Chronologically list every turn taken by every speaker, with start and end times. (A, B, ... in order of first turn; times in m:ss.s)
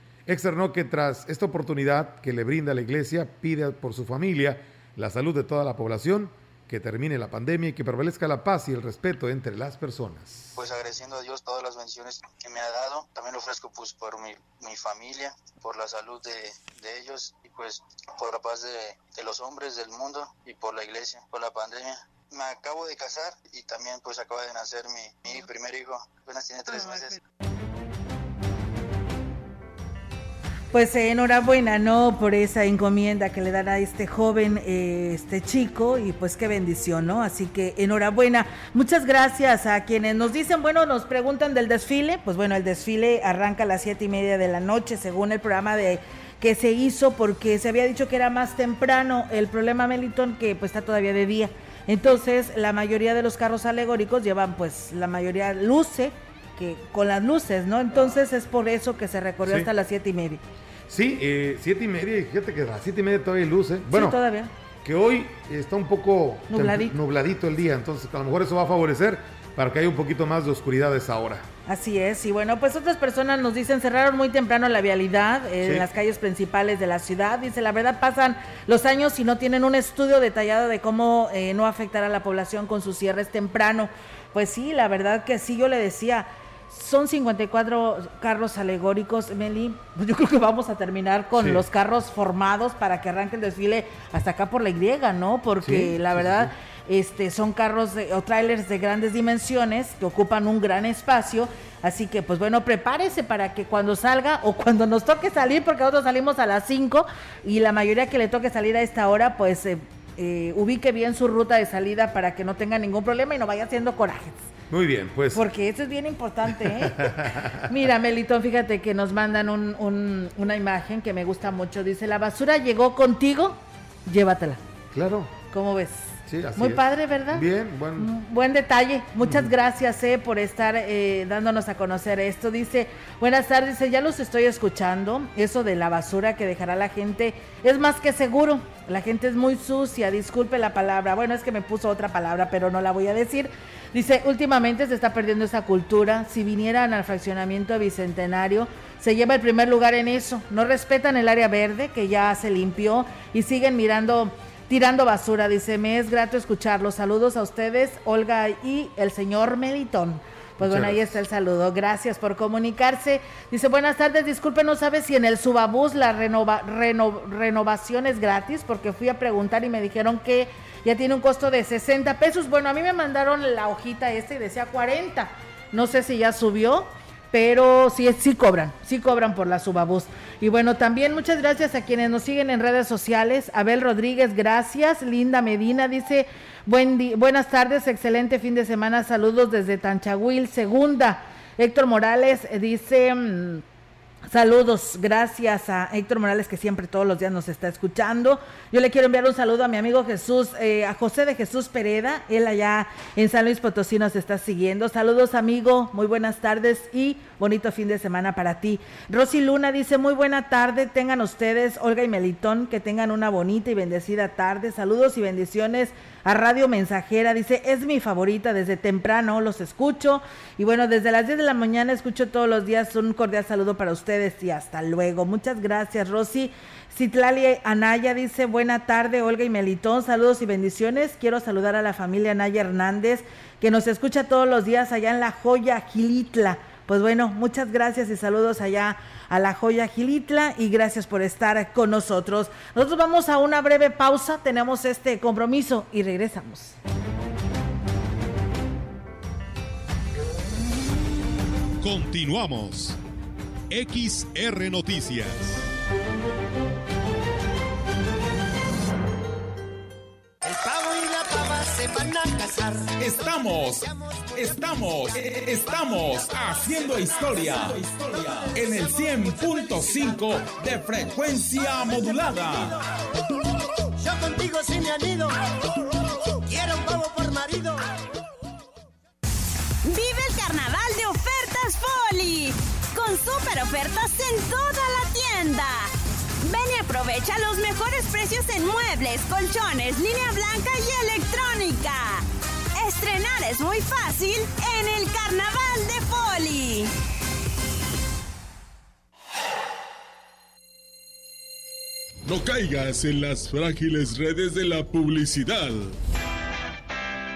0:00.3-0:10.5 A
0:10.6-0:27.2 B
0:30.7-1:00.4 C
0:59.4-0:59.7 A
1:00.9-1:04.2 A
1:03.9-1:04.5 C
1:04.8-1:11.5 A
1:06.5-1:07.0 C
1:11.7-1:54.5 C
1:15.6-1:15.9 A
1:31.4-1:31.6 A
1:35.6-1:36.5 A
1:54.7-1:55.4 A
1:55.3-2:04.6 C
1:56.6-1:57.7 A
2:04.9-2:05.3 A
2:05.5-2:07.5 C
2:06.3-2:08.1 A
2:08.0-3:13.6 C
2:09.2-2:09.5 A
2:40.6-2:41.2 A
3:14.3-4:06.8 C
4:11.8-4:13.0 A
4:13.7-4:15.7 A
4:20.4-4:22.9 D
4:23.0-4:32.8 E
4:23.9-4:24.3 D
4:34.0-4:35.4 D
4:36.4-4:37.9 D
4:39.8-4:52.2 F
4:52.8-4:56.9 F
5:02.2-5:06.0 G